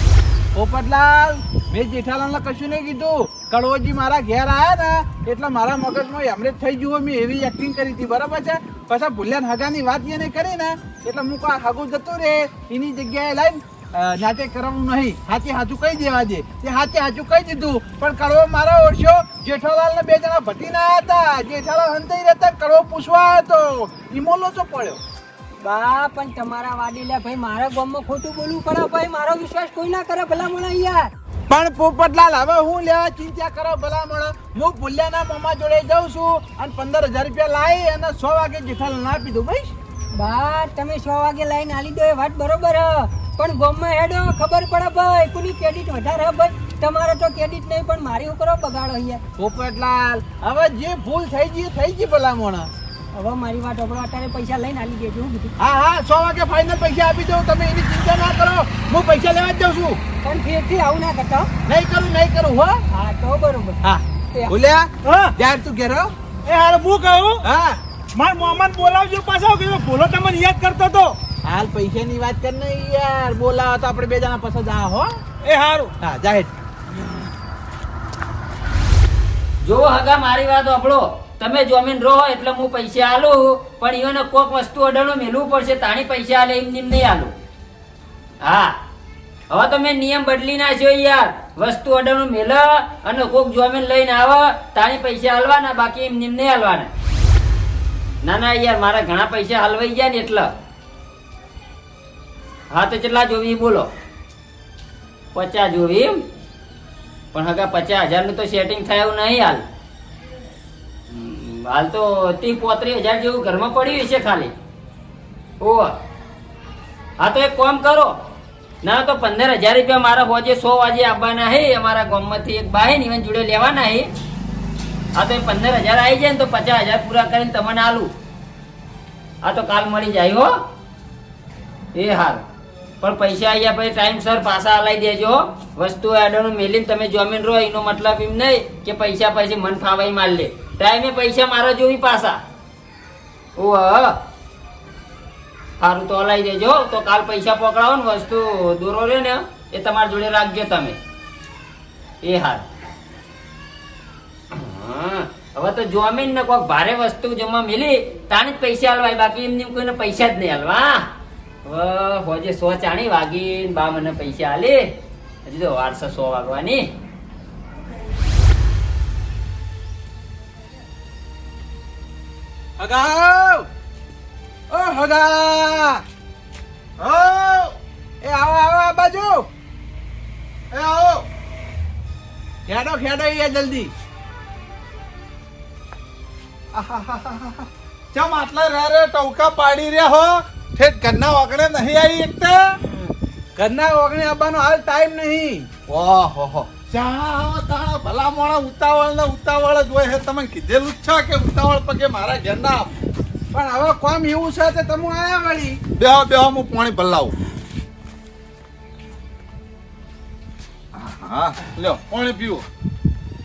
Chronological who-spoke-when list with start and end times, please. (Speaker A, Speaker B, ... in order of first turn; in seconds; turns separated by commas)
Speaker A: 0.6-25.0, Speaker B: 25.6-31.1, Speaker A: 31.5-39.7, Speaker B: 40.1-49.2, Speaker A: 49.4-52.7, Speaker B: 53.1-55.5, Speaker A: 55.6-60.0, Speaker B: 60.2-61.5, Speaker A: 61.7-62.8, Speaker B: 62.9-63.8, Speaker A: 63.8-66.1, Speaker C: 65.0-65.3, Speaker C: 66.5-67.4, Speaker A: 67.4-67.8, Speaker C: 68.2-71.2, Speaker A: 71.5-75.2, Speaker C: 75.4-75.9, Speaker A: 76.0-76.5, Speaker D: 79.6-87.3, Speaker D: 88.4-88.8, Speaker D: 89.5-96.9, Speaker D: 98.2-100.5, Speaker D: 102.7-103.9, Speaker D: 105.3-106.2, Speaker D: 107.3-109.6, Speaker D: 111.1-114.5, Speaker D: 115.6-116.0, Speaker D: 117.2-118.2, Speaker D: 118.8-124.1, Speaker D: 125.2-128.1, Speaker D: 129.4-130.6, Speaker D: 131.9-132.4, Speaker D: 133.0-142.4, Speaker D: 143.6-144.2, Speaker D: 145.8-151.0, Speaker D: 152.2-152.6, Speaker D: 154.5-161.1, Speaker D: 161.7-164.9, Speaker D: 165.4-166.9, Speaker A: 172.8-173.7, Speaker A: 174.7-176.0, Speaker E: 177.0-177.8, Speaker A: 178.2-179.5, Speaker E: 180.7-181.2, Speaker A: 182.7-183.9, Speaker E: 186.7-192.8, Speaker A: 193.6-195.7, Speaker E: 195.9-202.9, Speaker A: 203.5-205.8, Speaker E: 206.0-207.3, Speaker E: 210.9-212.6